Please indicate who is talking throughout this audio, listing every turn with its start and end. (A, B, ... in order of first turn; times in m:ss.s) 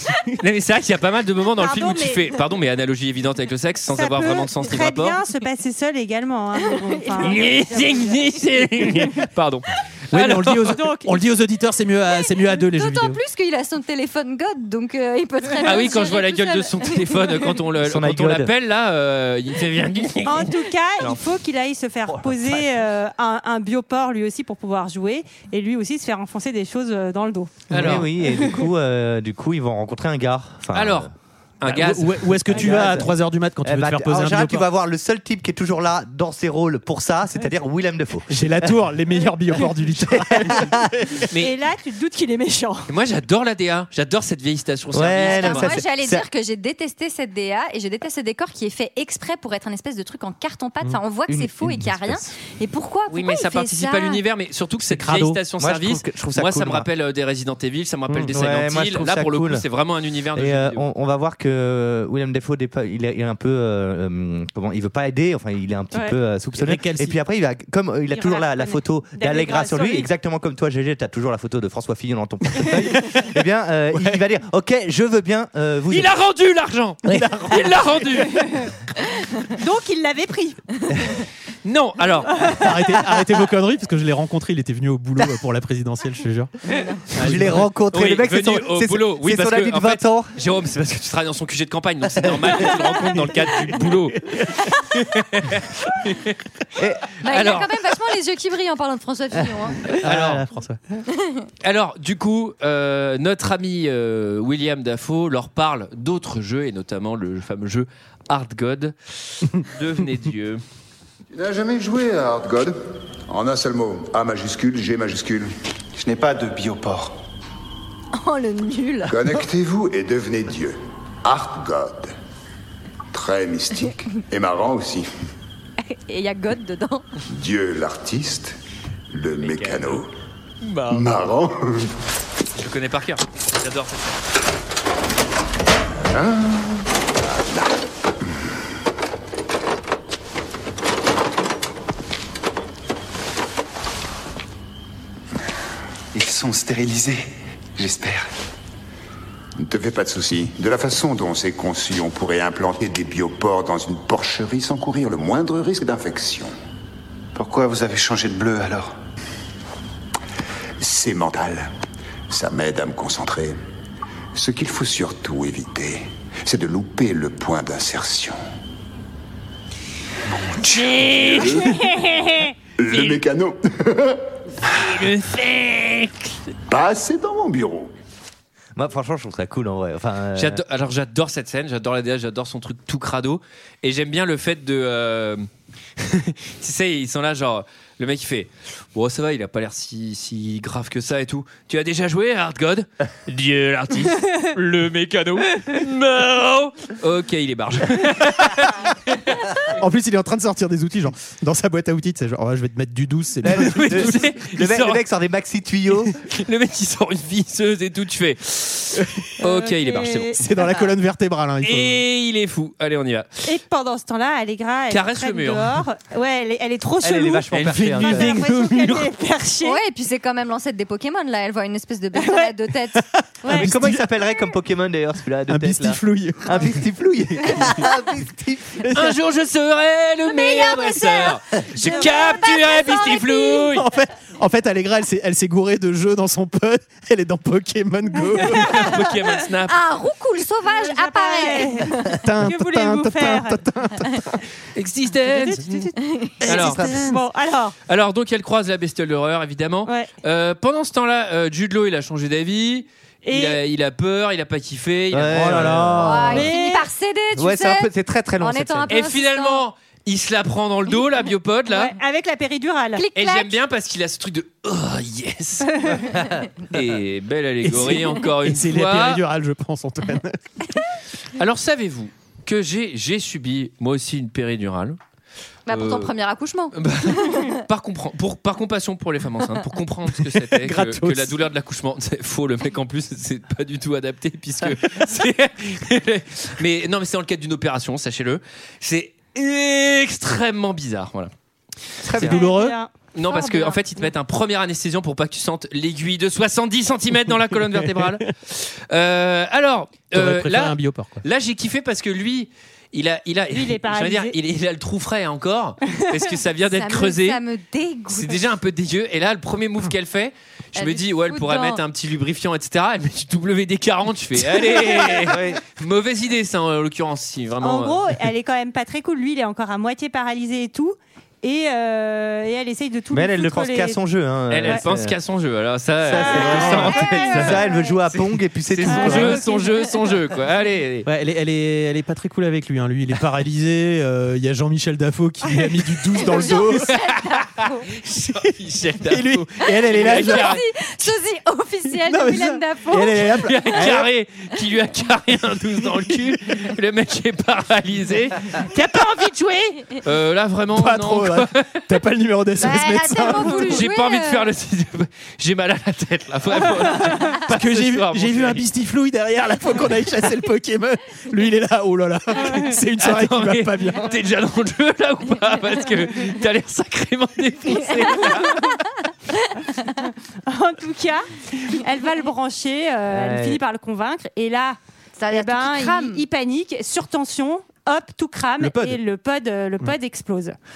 0:00.3-0:05.2 A
0:01.6-0:02.3 B
0:03.9-0:08.3 B
0:06.7-0:07.5 C
0:07.2-0:10.7 A
0:08.8-0:09.1 B
0:10.1-0:13.2 D
0:10.7-0:11.1 B
0:12.2-0:17.5 C
0:15.6-0:21.2 A
0:17.8-0:18.5 E
0:20.2-0:27.7 B
0:22.1-0:22.7 E
0:27.7-0:28.1 A
0:27.7-0:31.1 E
0:30.7-0:31.1 A
0:31.6-0:32.5 A
0:31.6-0:34.7 D
0:32.5-0:33.1 E
0:33.6-0:38.7 E
0:38.3-0:41.3 D
0:39.6-0:41.2 E
0:41.4-0:42.9 B
0:42.9-0:45.8 A
0:44.9-0:46.2 E
0:45.2-0:54.2 C
0:51.3-0:52.3 E
0:53.1-1:00.8 A
0:54.9-0:55.4 D
0:55.6-0:56.9 E
0:58.3-0:59.6 E
1:00.3-1:16.2 E
1:06.6-1:07.2 D
1:08.1-1:10.1 B
1:12.6-1:13.2 D
1:13.9-1:14.2 D
1:15.9-1:18.5 A
1:17.1-1:18.0 D
1:18.3-1:18.7 B
1:19.5-1:20.7 B
1:21.6-1:22.5 A
1:22.3-1:22.7 B
1:22.5-1:26.5 D
1:27.1-1:27.7 D
1:27.1-1:30.3 E
1:27.2-1:36.4 A
1:32.2-1:32.6 E
1:33.4-1:34.3 D
1:36.8-1:37.1 E
1:37.2-1:39.9 C
1:37.2-1:37.7 A
1:40.0-1:41.0 D
1:40.0-1:40.4 A
1:41.1-1:41.5 C
1:41.6-1:50.6 A
1:51.3-1:52.8 F
1:53.3-1:55.5 F
1:55.9-1:57.2 G
1:58.1-1:59.4 C
1:59.1-2:02.1 F
2:03.1-2:05.1 F
2:05.9-2:07.0 C
2:07.3-2:08.6 F
2:09.1-2:10.1 F
2:09.4-2:10.0 A
2:10.6-2:11.1 A
2:10.9-2:11.9 F
2:12.5-2:14.2 A
2:16.1-2:17.7 F
2:26.1-2:28.3 G
2:29.6-2:36.5 F
2:37.3-2:39.0 G
2:40.8-2:41.7 F
2:42.3-2:43.6 F
2:44.3-2:48.4 F
2:50.4-2:51.8 F
2:50.6-2:52.1 A
2:51.8-2:52.5 B
2:52.8-2:54.2 F
2:52.9-2:53.2 A
2:54.6-2:56.4 A
2:56.7-2:57.9 F
2:58.8-3:00.6 E
3:00.3-3:05.4 A
3:06.0-3:19.5 A
3:19.7-3:24.3 D
3:23.4-3:26.1 E
3:23.5-3:25.0 A
3:26.2-3:30.4 A
3:29.4-3:30.8 B
3:30.4-3:32.0 D
3:31.6-3:33.4 A
3:33.4-3:39.8 B
3:34.9-3:35.7 A
3:37.0-3:38.4 E
3:37.5-3:39.1 A
3:39.6-3:43.0 C
3:42.1-3:42.5 B
3:43.0-3:44.1 D
3:43.4-3:43.7 B
3:43.5-3:48.9 E
3:45.5-3:46.8 D
3:47.4-3:47.8 D
3:48.8-3:49.1 D
3:48.9-3:53.9 A
3:50.3-3:53.7 C
3:51.8-3:52.5 B
3:53.7-3:59.0 D
3:58.4-3:59.8 A
3:59.7-4:02.2 C
4:00.6-4:03.6 B
4:02.1-4:04.4 D
4:04.7-4:05.9 A
4:05.2-4:07.7 B
4:06.0-4:06.3 C
4:06.4-4:06.9 A
4:06.4-4:07.1 E
4:06.6-4:07.2 D
4:07.9-4:15.8 A
4:13.2-4:13.6 B
4:15.1-4:16.5 E
4:15.3-4:16.4 D
4:16.0-4:19.6 C
4:16.3-4:16.9 B
4:17.3-4:19.0 E
4:18.9-4:21.9 A
4:21.7-4:23.0 B
4:23.0-4:23.6 C
4:23.1-4:29.2 A
4:25.6-4:26.1 B
4:27.6-4:30.4 D
4:31.4-4:35.0 A
4:35.7-4:37.6 C
4:35.7-4:36.1 A
4:36.7-4:51.3 A
4:40.2-4:41.4 D
4:52.1-4:52.4 A
4:52.1-4:52.8 D
4:52.2-4:53.6 B
4:53.1-5:07.4 A
4:53.4-4:53.8 C
4:57.5-4:58.3 D
5:00.1-5:01.2 D
5:03.5-5:04.3 B
5:05.9-5:06.2 B
5:06.7-5:08.4 C
5:08.1-5:18.0 A
5:10.8-5:11.8 C
5:15.2-5:15.6 E
5:17.6-5:24.0 B
5:23.1-5:25.2 E
5:24.5-5:31.1 A
5:26.0-5:29.4 E
5:26.1-5:28.0 B
5:28.9-5:30.1 B
5:31.0-5:36.9 D
5:36.2-5:37.8 C
5:36.4-5:40.6 A
5:39.0-5:40.6 D
5:39.6-5:43.8 C
5:42.0-5:44.1 D
5:43.4-5:51.8 A
5:45.9-5:46.3 D
5:50.7-5:53.8 D
5:52.6-5:54.5 C
5:53.4-5:58.6 A
5:57.3-6:04.2 D
6:02.4-6:02.7 B
6:03.0-6:08.8 A
6:10.4-6:14.8 B
6:13.1-6:13.6 E
6:15.2-6:16.2 C
6:15.3-6:20.6 B
6:18.6-6:19.0 D